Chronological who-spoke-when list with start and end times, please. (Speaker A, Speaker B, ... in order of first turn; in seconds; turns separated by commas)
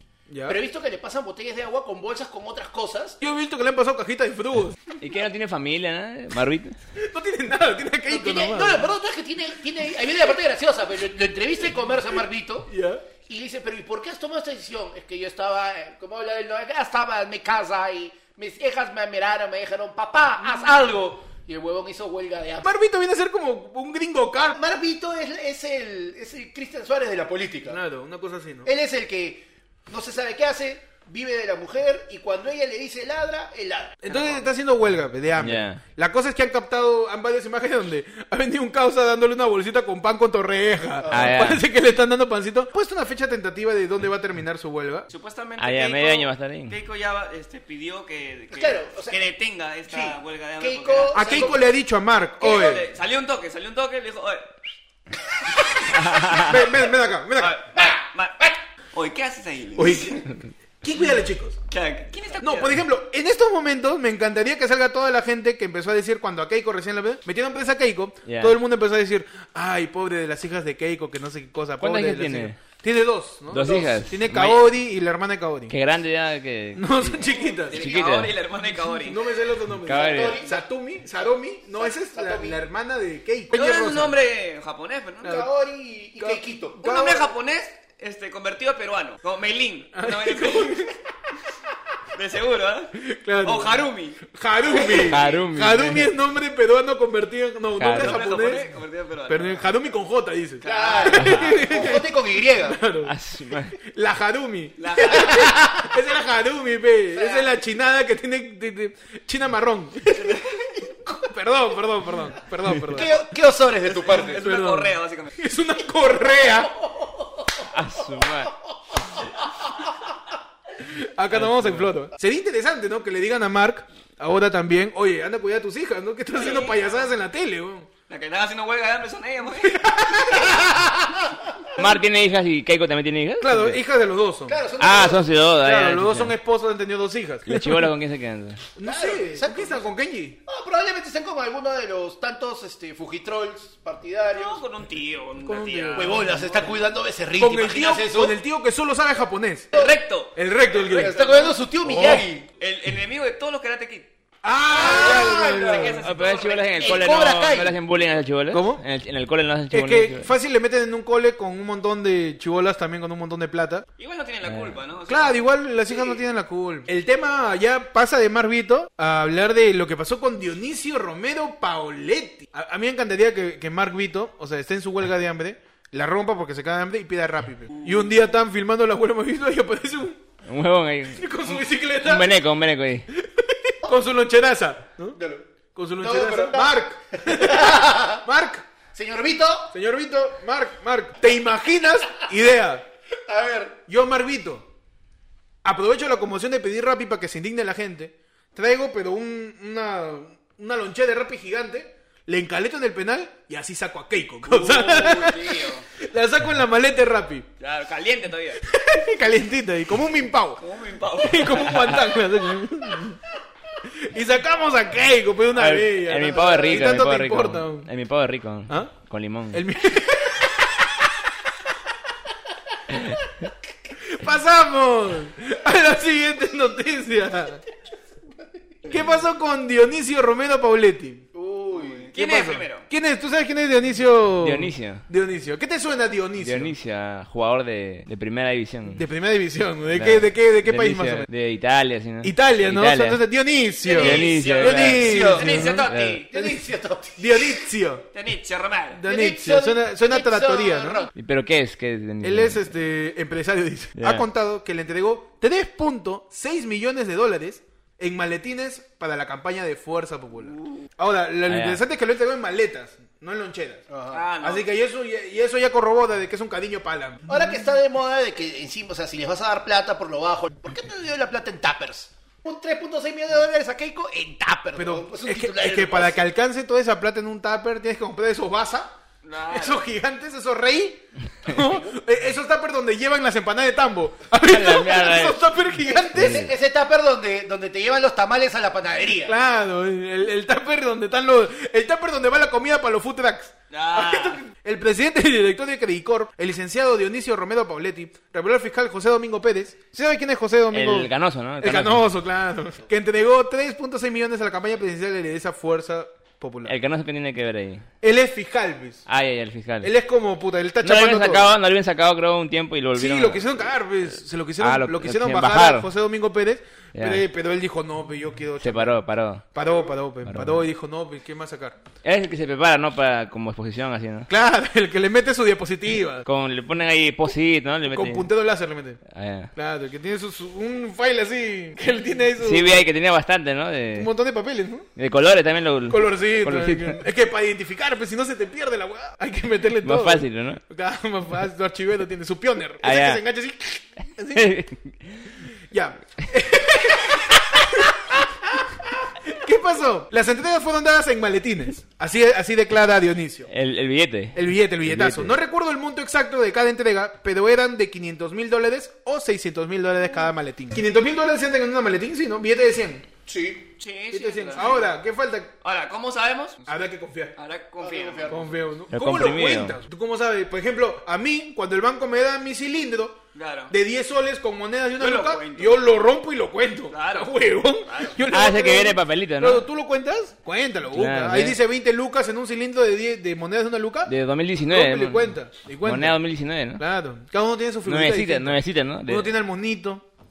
Speaker A: 0.3-0.6, Speaker B: 0.5-3.2, Speaker A: 3.2-4.8, Speaker C: 5.0-6.8, Speaker A: 7.0-8.9, Speaker B: 8.1-12.7, Speaker A: 12.7-13.0, Speaker B: 13.2-22.7, Speaker A: 22.6-24.6, Speaker B: 24.5-27.8, Speaker A: 27.7-28.7, Speaker B: 28.6-34.5, Speaker A: 34.0-45.1, Speaker C: 35.4-35.8, Speaker B: 41.0-41.5, Speaker C: 41.1-41.6, Speaker D: 45.1-51.6, Speaker C: 45.6-46.8, Speaker B: 48.5-49.2, Speaker B: 49.9-51.6, Speaker A: 51.1-52.9, Speaker D: 52.4-54.5, Speaker D: 55.7-56.6, Speaker C: 56.0-56.3, Speaker A: 56.4-57.6, Speaker D: 57.4-60.3, Speaker A: 59.8-60.3, Speaker A: 60.8-61.6, Speaker D: 61.7-62.8, Speaker A: 62.4-75.7, Speaker C: 68.3-68.6, Speaker C: 71.8-72.6, Speaker C: 73.5-74.7, Speaker B: 73.6-73.9, Speaker C: 75.7-78.3, Speaker A: 76.8-77.9, Speaker D: 77.5-79.2, Speaker A: 78.9-84.2, Speaker C: 79.8-80.4, Speaker B: 79.9-80.7, Speaker B: 81.7-82.6, Speaker D: 83.5-85.5, Speaker A: 85.2-85.5, Speaker B: 85.2-87.1, Speaker A: 86.2-87.2, Speaker D: 86.8-90.9, Speaker A: 90.0-90.9, Speaker D: 92.1-94.3, Speaker A: 93.0-98.7, Speaker D: 94.9-95.2, Speaker C: 95.0-96.1, Speaker C: 97.8-98.3, Speaker D: 97.9-99.8, Speaker A: 99.3-102.1, Speaker D: 100.6-101.6, Speaker B: 100.6-102.8, Speaker A: 102.7-103.1, Speaker C: 103.0-103.8, Speaker A: 103.8-110.4, Speaker D: 104.8-105.6, Speaker B: 105.1-105.8, Speaker B: 107.1-107.5, Speaker D: 110.2-110.5, Speaker A: 111.2-113.1, Speaker B: 112.9-114.4, Speaker D: 113.9-115.3, Speaker A: 114.4-116.7, Speaker C: 117.7-118.5, Speaker A: 120.8-127.9, Speaker C: 121.3-121.9, Speaker D: 126.4-126.9, Speaker D: 128.1-130.1, Speaker A: 129.7-130.6, Speaker C: 131.8-133.8, Speaker A: 133.4-134.6, Speaker B: 134.5-135.3, Speaker C: 134.8-136.3, Speaker A: 135.6-137.9, Speaker C: 137.5-138.6, Speaker A: 138.8-140.4, Speaker B: 138.8-139.9, Speaker B: 140.5-144.6, Speaker D: 144.3-146.8, Speaker A: 145.4-146.6, Speaker B: 145.9-148.3, Speaker A: 147.4-149.7, Speaker D: 149.7-151.7, Speaker A: 150.3-151.2, Speaker B: 150.8-152.5, Speaker A: 151.8-152.3, Speaker D: 152.6-154.1, Speaker A: 154.4-156.0, Speaker D: 154.7-157.1, Speaker B: 154.7-156.0, Speaker C: 156.0-160.3, Speaker B: 156.8-157.8, Speaker A: 158.5-158.8, Speaker A: 159.7-163.9, Speaker D: 164.0-165.5, Speaker C: 164.5-164.8, Speaker A: 165.1-180.2, Speaker C: 180.4-183.1, Speaker A: 181.1-182.3, Speaker A: 183.1-185.2, Speaker B: 185.2-185.5, Speaker A: 185.8-188.7, Speaker B: 186.0-188.2, Speaker B: 188.9-189.7, Speaker A: 189.7-192.9, Speaker B: 193.3-193.8, Speaker A: 193.9-194.7, Speaker A: 195.6-207.5, Speaker D: 204.5-205.9, Speaker D: 207.6-208.6, Speaker A: 208.6-210.6, Speaker D: 210.6-211.9, Speaker A: 211.2-213.2, Speaker A: 214.0-217.9, Speaker C: 215.6-219.6, Speaker A: 219.5-220.9, Speaker A: 224.0-227.6, Speaker A: 228.9-231.2, Speaker B: 231.3-232.1, Speaker D: 231.7-232.8, Speaker A: 232.2-236.7, Speaker C: 234.4-235.1, Speaker C: 236.4-239.0, Speaker A: 238.9-241.3, Speaker C: 239.9-243.2, Speaker A: 242.2-245.8, Speaker B: 243.8-245.7, Speaker D: 243.9-246.3, Speaker C: 244.0-246.2, Speaker B: 246.3-247.7, Speaker A: 246.3-246.7, Speaker A: 247.2-248.1, Speaker D: 248.1-249.0, Speaker A: 248.9-251.0, Speaker B: 249.1-251.1, Speaker C: 251.2-252.7, Speaker A: 252.2-263.8, Speaker C: 254.0-254.2, Speaker C: 261.5-261.8, Speaker B: 263.9-264.3, Speaker D: 264.1-264.7, Speaker A: 264.4-267.2, Speaker B: 267.3-276.2, Speaker A: 274.8-278.9, Speaker D: 279.2-279.8, Speaker A: 279.5-286.5, Speaker C: 284.4-285.4, Speaker B: 286.1-289.4, Speaker C: 286.2-286.5, Speaker A: 289.2-301.1, Speaker D: 293.7-294.4, Speaker C: 300.7-302.1, Speaker A: 301.6-306.8, Speaker C: 306.6-307.9, Speaker A: 308.0-309.1, Speaker C: 309.1-309.9, Speaker A: 309.8-311.5, Speaker C: 310.8-313.5, Speaker A: 312.9-319.0, Speaker C: 314.6-315.9, Speaker C: 316.9-317.2, Speaker C: 318.6-319.4, Speaker A: 319.5-321.8, Speaker C: 320.3-320.6, Speaker C: 322.0-324.3, Speaker A: 324.3-326.3, Speaker C: 326.2-328.3, Speaker A: 327.9-329.0, Speaker C: 329.1-329.5, Speaker A: 329.6-332.9, Speaker C: 332.4-334.1, Speaker A: 333.9-334.9, Speaker C: 335.0-337.0, Speaker A: 335.9-344.5, Speaker C: 339.8-340.6, Speaker C: 342.8-343.2, Speaker C: 344.3-345.3, Speaker A: 345.7-353.5, Speaker C: 353.5-355.4, Speaker A: 354.4-363.1, Speaker B: 363.3-363.7, Speaker D: 363.8-364.9, Speaker A: 364.1-365.5, Speaker D: 365.6-366.8, Speaker A: 366.7-367.4, Speaker D: 367.4-368.4, Speaker B: 367.8-368.6, Speaker A: 368.3-384.1, Speaker C: 368.9-369.8, Speaker D: 373.4-373.7, Speaker D: 375.0-375.9, Speaker D: 376.9-378.2, Speaker C: 378.3-379.6, Speaker C: 380.9-381.6, Speaker C: 384.1-385.3, Speaker A: 384.7-386.2, Speaker C: 385.9-386.8, Speaker A: 386.8-390.0, Speaker C: 387.9-389.3